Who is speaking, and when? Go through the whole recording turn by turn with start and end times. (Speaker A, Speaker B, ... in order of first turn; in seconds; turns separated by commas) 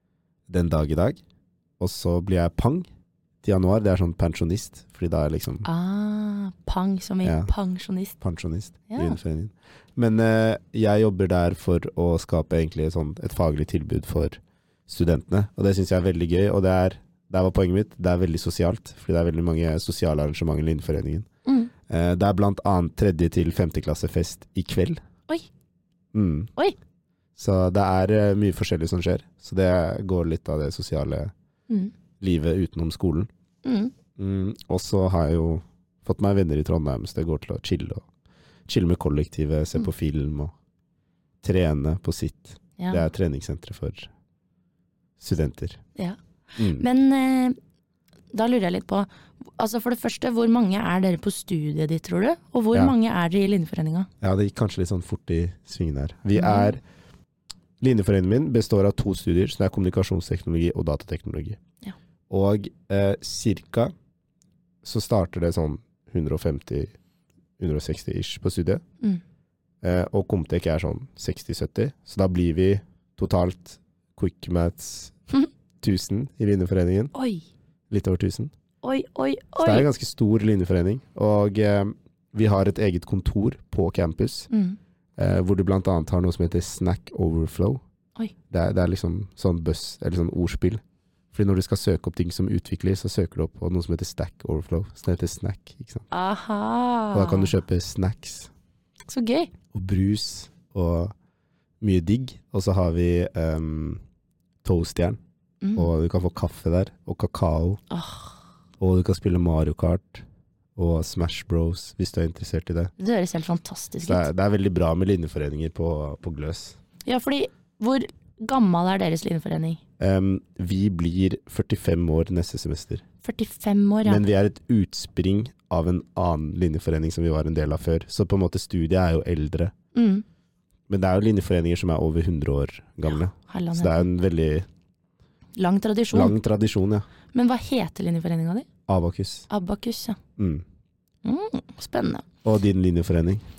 Speaker A: 0.5-1.2, Speaker A: 1.8-2.9, Speaker A: 3.4-5.7, Speaker B: 5.6-8.2, Speaker A: 7.2-7.5, Speaker A: 8.2-21.3, Speaker B: 8.9-9.2, Speaker B: 21.4-21.7, Speaker A: 21.9-25.0, Speaker A: 26.1-26.5, Speaker A: 27.4-31.3, Speaker A: 32.2-33.3, Speaker B: 33.6-33.9, Speaker A: 34.2-38.1, Speaker A: 38.7-40.5, Speaker A: 41.4-44.1, Speaker A: 45.2-45.8, Speaker A: 46.6-46.8, Speaker B: 46.7-47.6, Speaker B: 48.3-54.1, Speaker A: 54.2-56.8, Speaker B: 56.3-56.7, Speaker A: 57.8-61.6, Speaker A: 62.3-63.9, Speaker A: 64.8-66.9, Speaker A: 67.6-68.8, Speaker A: 69.8-75.2, Speaker A: 75.8-77.1, Speaker B: 77.1-77.4, Speaker A: 77.9-78.5, Speaker B: 78.8-79.9, Speaker A: 79.6-84.5, Speaker B: 84.5-84.8, Speaker A: 85.2-87.8, Speaker A: 88.5-90.8, Speaker A: 91.3-96.1, Speaker B: 96.1-97.5, Speaker A: 97.1-98.5, Speaker B: 99.1-99.5, Speaker A: 99.7-101.1, Speaker A: 101.8-104.0, Speaker A: 104.6-105.2, Speaker B: 105.6-105.9, Speaker A: 105.8-107.8, Speaker B: 107.9-108.4, Speaker A: 108.8-110.2, Speaker A: 110.8-112.9, Speaker B: 113.0-114.3, Speaker A: 114.0-116.8, Speaker B: 117.1-119.8, Speaker A: 120.0-123.0, Speaker B: 123.2-124.2, Speaker A: 124.0-129.7, Speaker B: 129.9-130.2, Speaker A: 130.9-134.7, Speaker B: 133.5-134.1, Speaker B: 135.6-136.3, Speaker A: 136.1-137.1, Speaker B: 137.3-138.7, Speaker A: 138.9-139.5, Speaker B: 139.5-140.2, Speaker A: 140.4-140.6, Speaker B: 141.2-142.2, Speaker A: 142.4-143.4